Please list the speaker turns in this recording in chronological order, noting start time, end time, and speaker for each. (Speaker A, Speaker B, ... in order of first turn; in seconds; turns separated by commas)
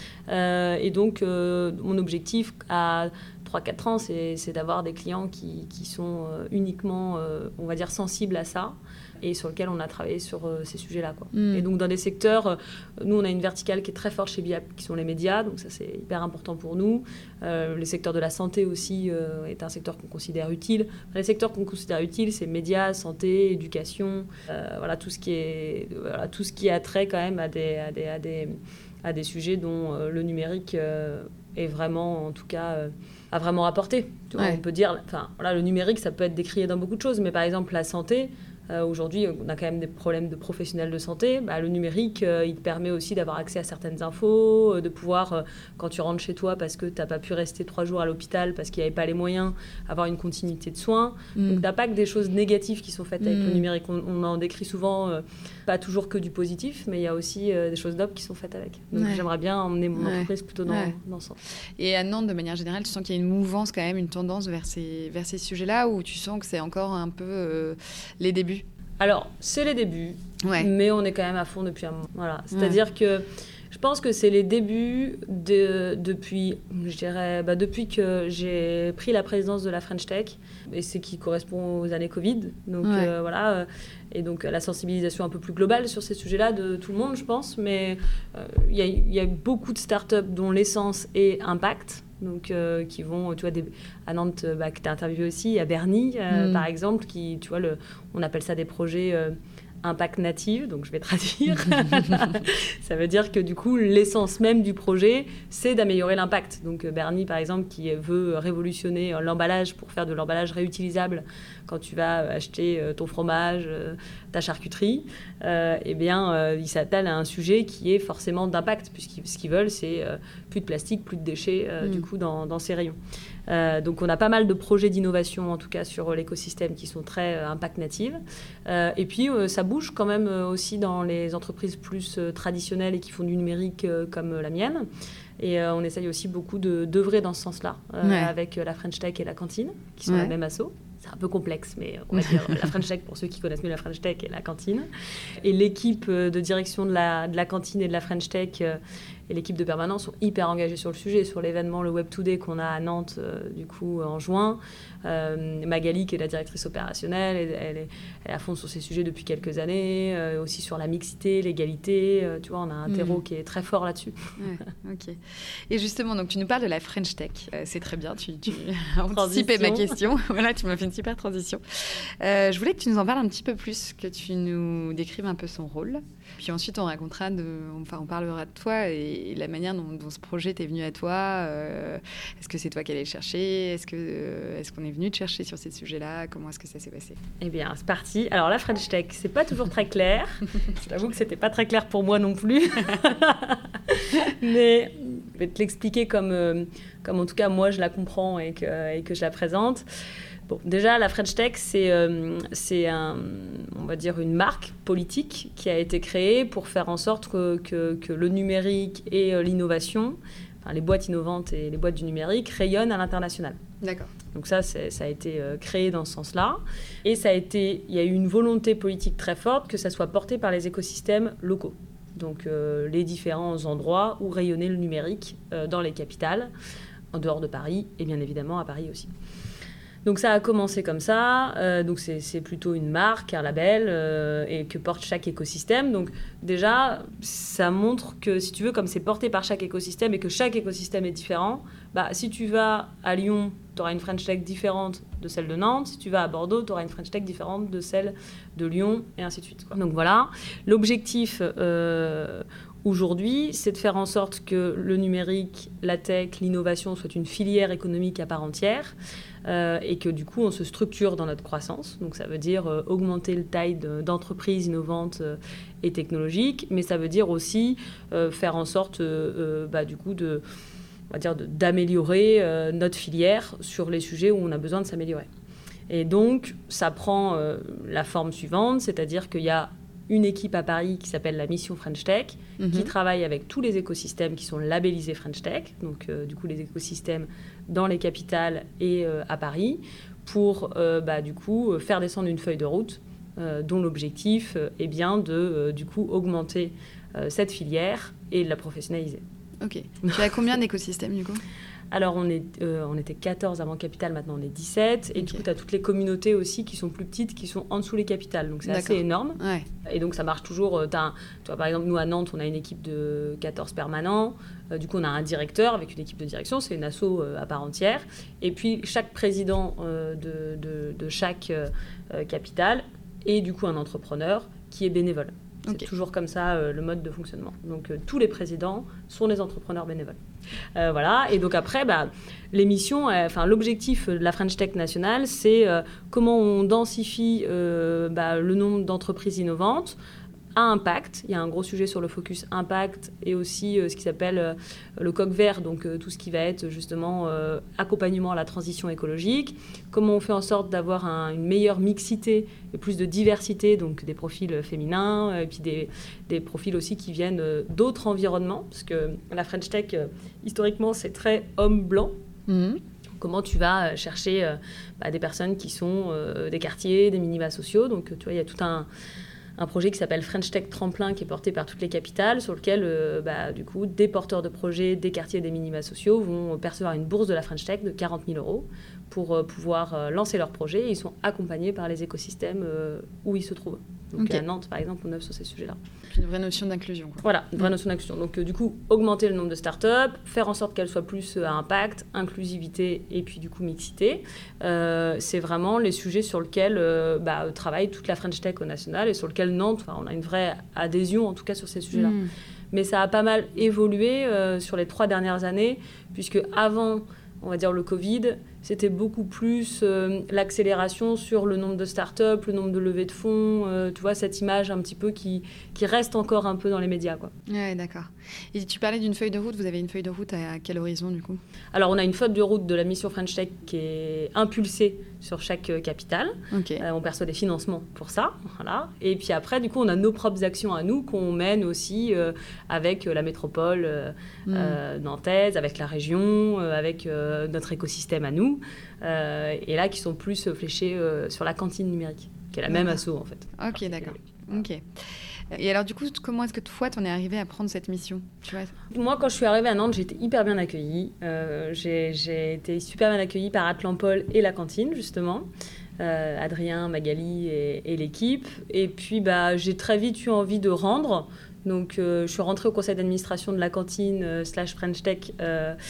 Speaker A: 0.3-61.4, Speaker B: 11.3-11.7, Speaker B: 34.4-34.6, Speaker B: 51.4-51.6, Speaker B: 53.2-53.6, Speaker B: 58.9-59.2, Speaker B: 60.0-61.0, Speaker B: 61.8-68.6, Speaker A: 69.0-134.9, Speaker B: 70.4-70.7, Speaker B: 72.5-72.8, Speaker B: 82.8-83.1, Speaker B: 96.3-96.7, Speaker A: 135.4-164.3, Speaker B: 138.0-138.3, Speaker B: 140.1-140.3, Speaker B: 162.9-163.2, Speaker B: 164.4-187.2, Speaker A: 169.1-170.0, Speaker A: 187.4-199.8, Speaker A: 200.5-213.6, Speaker B: 213.8-214.1, Speaker A: 214.3-226.5, Speaker A: 227.1-229.1, Speaker A: 230.0-270.4, Speaker A: 271.1-275.3, Speaker A: 275.9-299.2, Speaker B: 282.6-282.9, Speaker B: 299.6-301.4, Speaker A: 300.1-300.4, Speaker A: 301.9-330.2, Speaker B: 308.7-309.7, Speaker A: 330.8-340.0, Speaker A: 340.6-362.1, Speaker B: 362.5-362.8, Speaker A: 363.2-368.9, Speaker A: 369.6-385.8, Speaker B: 384.2-384.4, Speaker B: 386.1-387.2, Speaker A: 387.2-402.2, Speaker B: 401.9-402.3, Speaker A: 402.7-417.3, Speaker B: 417.5-421.4, Speaker A: 421.7-444.1, Speaker B: 426.5-426.8, Speaker B: 434.5-434.8, Speaker B: 442.7-443.0, Speaker B: 443.6-448.7, Speaker A: 448.9-455.5, Speaker A: 456.0-465.8